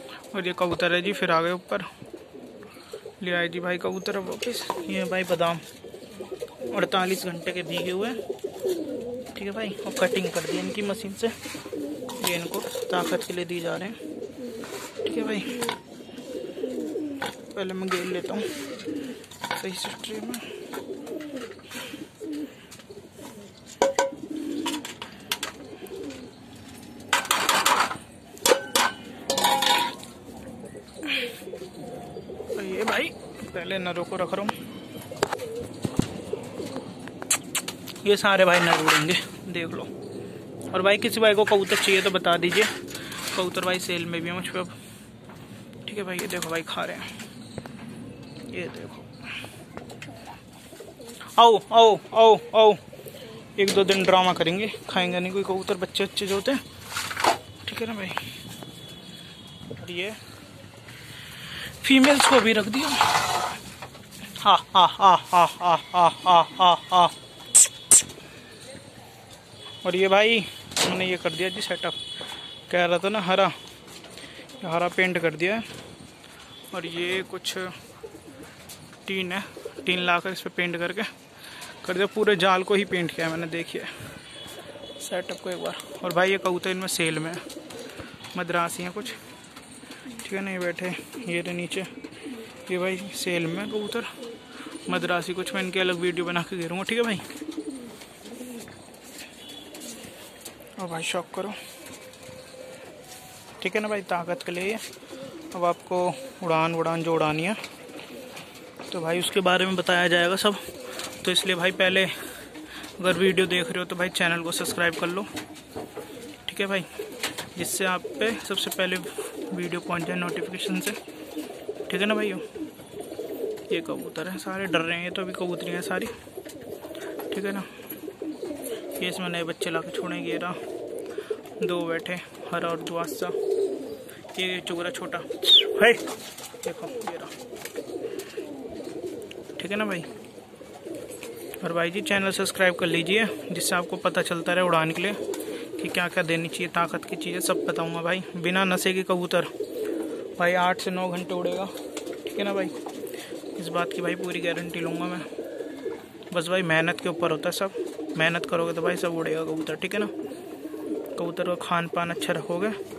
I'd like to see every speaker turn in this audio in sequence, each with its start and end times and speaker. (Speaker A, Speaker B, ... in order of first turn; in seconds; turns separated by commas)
Speaker A: 0.3-1.9, Speaker A: 3.2-5.6, Speaker A: 6.7-8.2, Speaker A: 9.3-11.4, Speaker A: 12.2-14.0, Speaker A: 15.0-15.6, Speaker A: 17.5-18.5, Speaker A: 19.5-20.5, Speaker A: 32.5-34.5, Speaker A: 38.0-39.9, Speaker A: 40.7-44.8, Speaker A: 45.8-47.1, Speaker A: 48.5-49.1, Speaker A: 51.4-52.8, Speaker A: 53.6-56.6, Speaker A: 57.6-58.2, Speaker A: 59.8-60.2, Speaker A: 61.8-63.4, Speaker A: 64.4-67.2, Speaker A: 69.8-72.0, Speaker A: 72.7-73.6, Speaker A: 74.6-75.7, Speaker A: 76.7-77.8, Speaker A: 79.0-81.1, Speaker A: 81.8-83.9, Speaker A: 85.0-87.4, Speaker A: 88.3-89.2, Speaker A: 90.2-91.9, Speaker A: 92.7-94.1, Speaker A: 94.9-97.2, Speaker A: 100.8-101.6, Speaker A: 103.6-104.8, Speaker A: 105.5-107.6, Speaker A: 108.9-112.1, Speaker A: 113.0-115.3, Speaker A: 116.5-116.9, Speaker A: 117.5-121.0, Speaker A: 121.9-122.5, Speaker A: 123.7-126.1, Speaker A: 127.3-127.7, Speaker A: 129.0-130.6, Speaker A: 131.6-133.4, Speaker A: 134.3-136.1, Speaker A: 136.6-137.3, Speaker A: 139.6-140.1, Speaker A: 141.6-145.2, Speaker A: 145.8-149.5, Speaker A: 150.4-151.7, Speaker A: 152.2-152.8, Speaker A: 153.6-155.3, Speaker A: 156.3-160.1, Speaker A: 161.2-162.8